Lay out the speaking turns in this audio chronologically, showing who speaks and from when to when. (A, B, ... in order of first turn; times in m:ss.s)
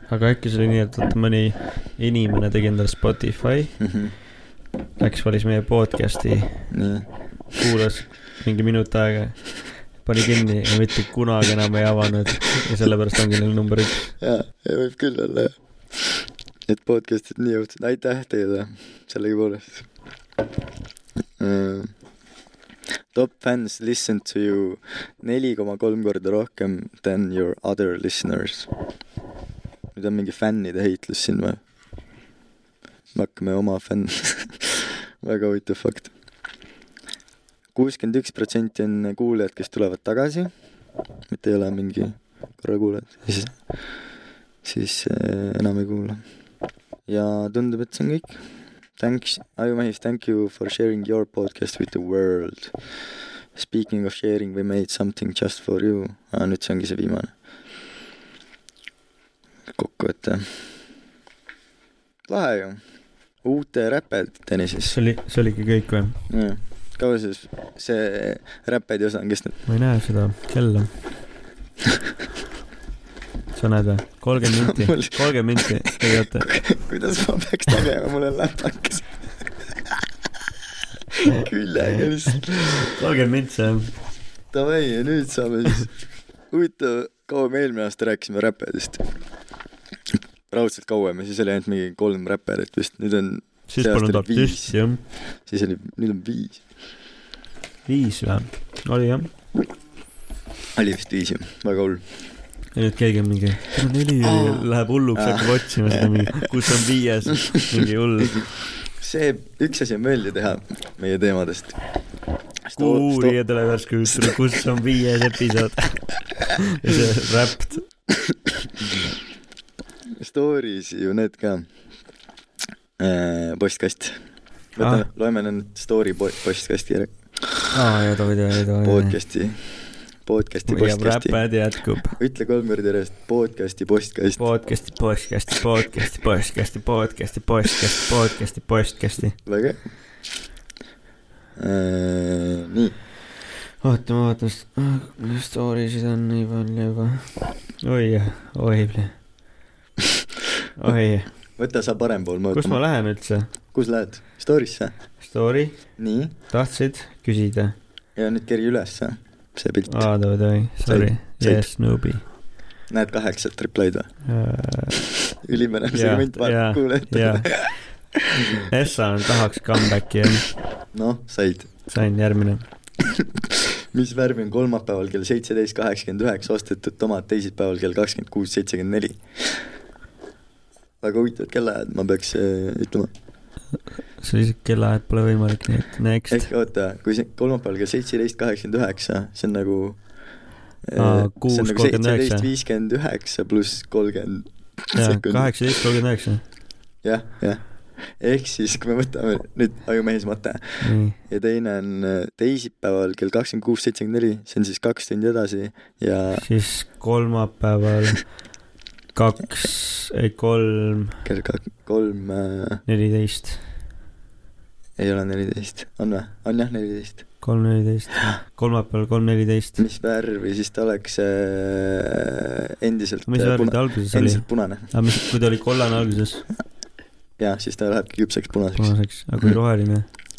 0:00.1-0:03.8 A
0:03.8-0:04.1 B
0:05.0-0:06.6 A
0:06.7-0:07.1 B
0:07.6-0:09.4 A
0:10.0-0:14.1 A
0:14.2-0:15.6 B
0:16.7-0:19.9 B
0:21.4-0:21.9 B
0:23.1-0:28.7 B
0:30.0-0:31.6 B
0:33.1-0:36.1 B
0:37.8-0:40.5 B
0:41.3-0:43.6 B
0:44.6-0:46.2 B
0:47.1-0:48.4 B
0:49.0-0:52.7 B
0:53.6-0:57.3 B
0:59.8-1:00.5 B
1:02.3-1:02.8 B
1:03.4-1:05.0 B
1:04.9-1:06.2 A
1:06.3-1:09.6 B
1:09.7-1:10.9 A
1:13.6-1:16.5 A
1:14.4-1:19.1 B
1:21.1-1:23.0 B
1:22.5-1:23.9 A
1:24.5-1:25.9 B
1:26.5-1:29.0 B
1:30.5-1:34.7 B
1:33.7-1:35.0 A
1:35.5-1:36.6 B
1:37.9-1:39.3 A
1:40.8-1:42.0 B
1:42.8-1:48.4 A
1:44.2-1:46.5 B
1:49.0-1:51.8 B
1:52.7-1:53.4 B
1:52.8-1:57.8 A
2:00.2-2:01.7 B
2:03.0-2:04.2 B
2:04.8-2:07.1 B
2:07.7-2:09.2 A
2:08.8-2:09.6 B
2:10.3-2:11.4 B
2:10.7-2:12.2 A
2:12.2-2:14.4 B
2:14.4-2:19.4 A
2:19.5-2:19.8 B
2:21.6-2:23.0 B
2:23.8-2:29.1 A
2:30.8-2:31.3 A
2:31.6-2:32.8 B
2:32.5-2:33.5 A
2:33.7-2:34.9 B
2:35.2-2:35.8 A
2:36.0-2:36.3 B
2:36.5-2:37.8 A
2:38.2-2:40.1 B
2:39.9-2:42.2 A
2:40.9-2:41.7 B
2:42.9-2:44.1 B
2:44.3-2:45.0 A
2:45.4-2:48.7 B
2:45.9-2:47.5 A
2:48.7-2:50.5 A
2:50.9-2:51.7 B
2:51.9-2:52.6 A
2:53.1-2:59.2 B
3:01.0-3:03.1 B
3:04.2-3:06.5 A
3:06.3-3:10.0 B
3:10.9-3:15.8 B
3:11.0-3:12.5 A
3:15.0-3:16.4 A
3:17.0-3:17.6 B
3:18.2-3:26.5 B
3:20.8-3:21.2 A
3:26.4-3:28.2 A
3:29.2-3:31.2 A
3:31.2-3:32.8 B
3:32.9-3:33.6 A
3:35.0-3:37.2 B
3:37.4-3:39.8 A
3:39.8-3:44.9 B
3:43.3-3:46.4 A
3:47.4-3:48.9 B
3:48.8-3:50.1 A